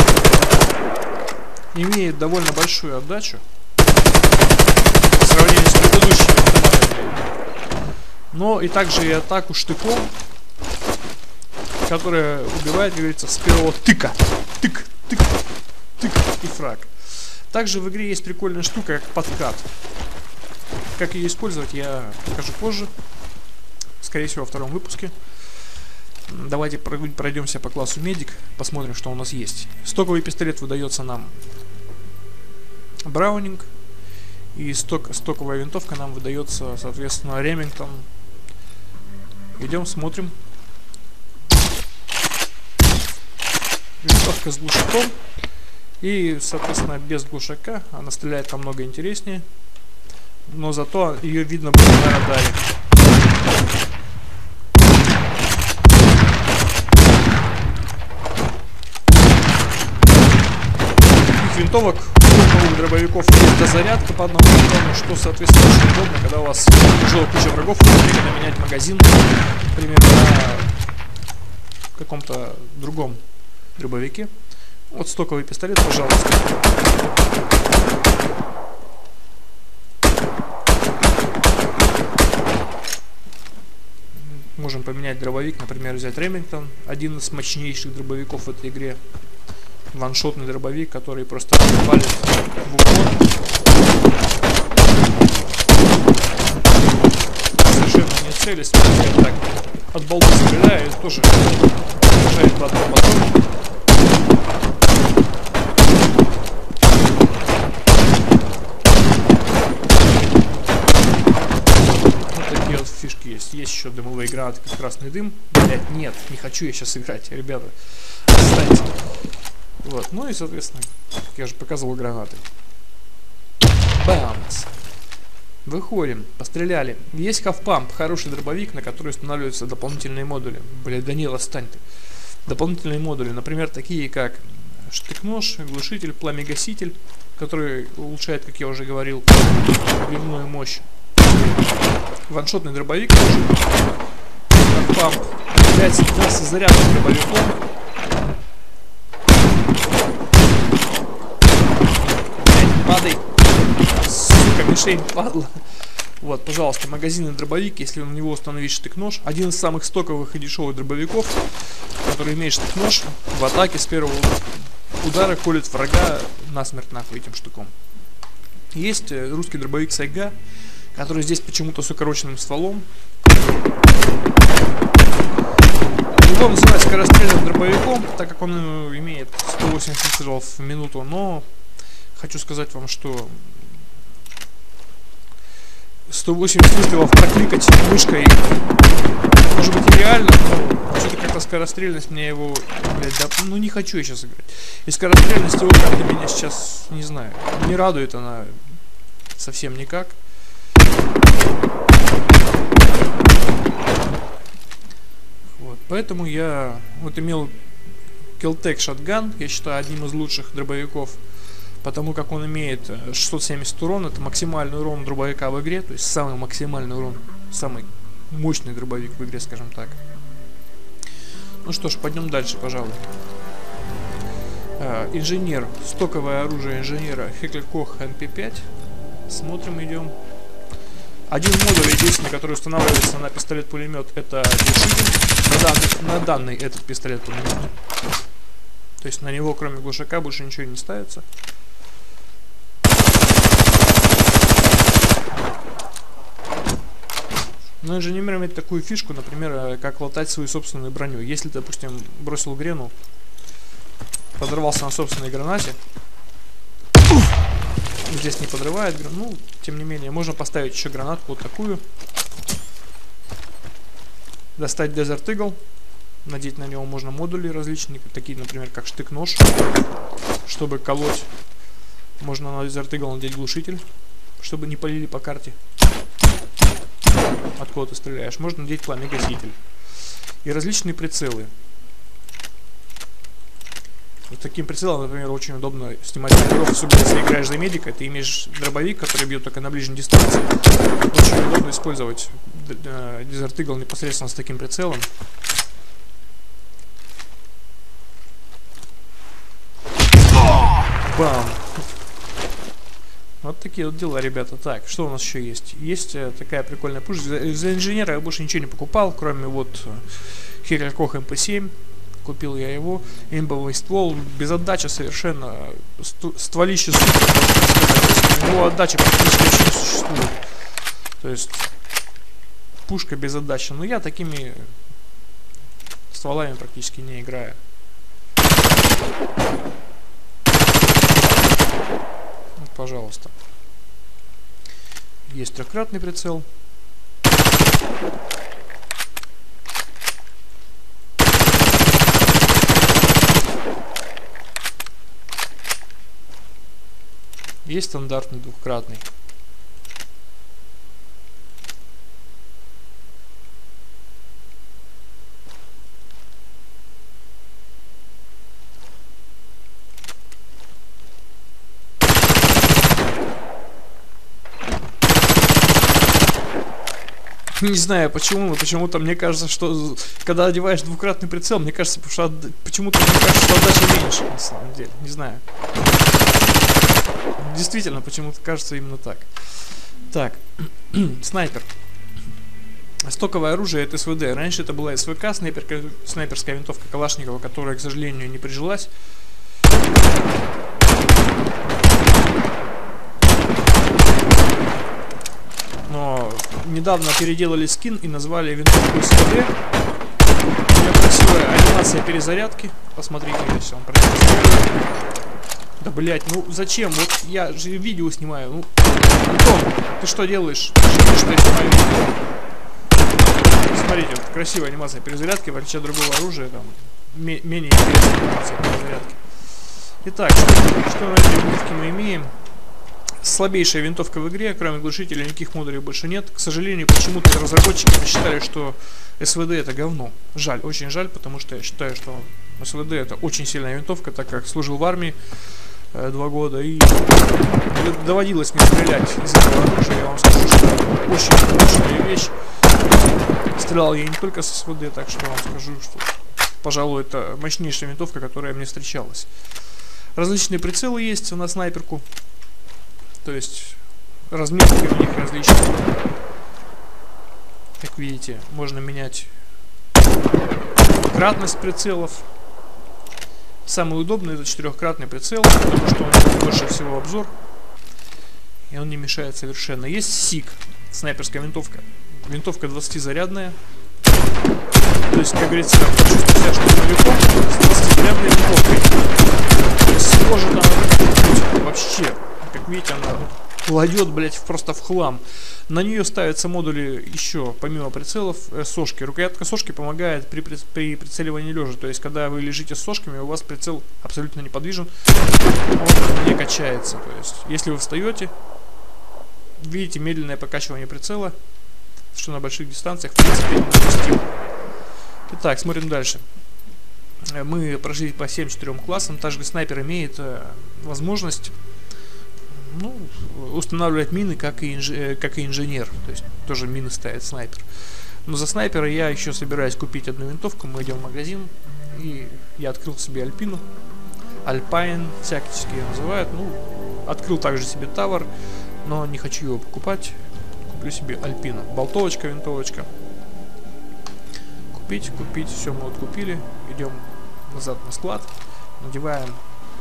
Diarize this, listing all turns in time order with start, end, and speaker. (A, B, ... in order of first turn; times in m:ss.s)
0:01.7-0:03.4 A
0:05.1-0:07.3 A
0:08.3-0:10.1 A
0:11.8-0:15.4 A
0:16.0-0:19.7 A
0:21.0-0:22.9 A
0:24.0-0:25.2 A
0:26.3-0:31.4 A
0:33.0-0:33.7 A
0:34.5-0:38.1 A
0:39.6-0:40.4 A
0:44.0-0:45.2 A
0:46.0-0:49.4 A
0:50.5-0:52.7 A
1:01.1-1:10.8 A
1:11.9-1:13.2 A
1:13.8-1:14.3 A
1:14.9-1:16.7 A
1:24.2-1:29.0 A
1:29.9-1:33.3 A
1:37.6-1:43.4 A
1:52.1-1:59.0 A
1:59.8-2:02.4 A
2:03.9-2:04.7 A
2:05.6-2:11.8 A
2:12.4-2:21.6 A
2:22.3-2:23.8 A
2:24.5-2:27.6 A
2:32.2-2:33.3 A
2:33.8-2:35.6 A
2:36.2-2:47.7 A
2:48.7-2:50.4 A
2:50.9-2:52.9 A
2:56.1-3:01.5 A
3:02.1-3:03.7 A
3:06.1-3:08.6 A
3:09.5-3:18.8 A
3:19.4-3:20.2 A
3:25.6-3:27.6 A
3:28.4-3:31.2 A
3:31.8-3:40.0 A
3:41.6-3:43.0 A
3:44.8-3:48.7 A
3:49.3-3:50.2 A
3:51.3-3:57.7 A
3:59.0-4:01.2 A
4:07.8-4:12.9 A
4:14.4-4:15.8 A
4:18.0-4:21.8 A
4:24.6-4:25.6 A
4:26.2-4:29.5 A
4:30.4-4:31.3 A
4:32.2-4:33.8 A
4:34.4-4:35.6 A
4:37.6-4:39.6 A
4:40.4-4:41.5 A
4:44.3-4:50.6 A
4:51.1-4:55.1 A
5:01.0-5:01.8 A
5:03.4-5:20.4 A
5:21.2-5:21.7 A
5:22.9-5:24.8 A
5:26.1-5:27.6 A
5:32.6-5:33.3 A
5:35.3-5:36.5 A
5:47.6-5:49.0 A
6:07.6-6:15.4 A
6:17.4-6:21.7 A
6:23.0-6:28.9 A
6:35.8-6:39.6 A
6:40.7-6:44.9 A
6:45.8-6:52.2 A
6:53.2-6:59.2 A
7:00.0-7:02.3 A
7:03.2-7:15.2 A
7:15.9-7:22.4 A
7:23.6-7:26.1 A
7:26.6-7:29.3 A
7:30.2-7:32.0 A
7:33.2-7:36.0 A
7:37.8-7:39.3 A
7:41.1-7:42.3 A
7:43.6-7:47.3 A
7:48.7-7:53.6 A
7:55.0-8:14.9 A
8:15.8-8:18.3 A
8:19.6-8:21.4 A
8:22.1-8:24.3 A
8:25.3-8:26.2 A
8:27.3-8:31.6 A
8:32.5-8:43.6 A
8:44.4-8:48.3 A
8:48.8-8:52.9 A
8:54.7-8:59.4 A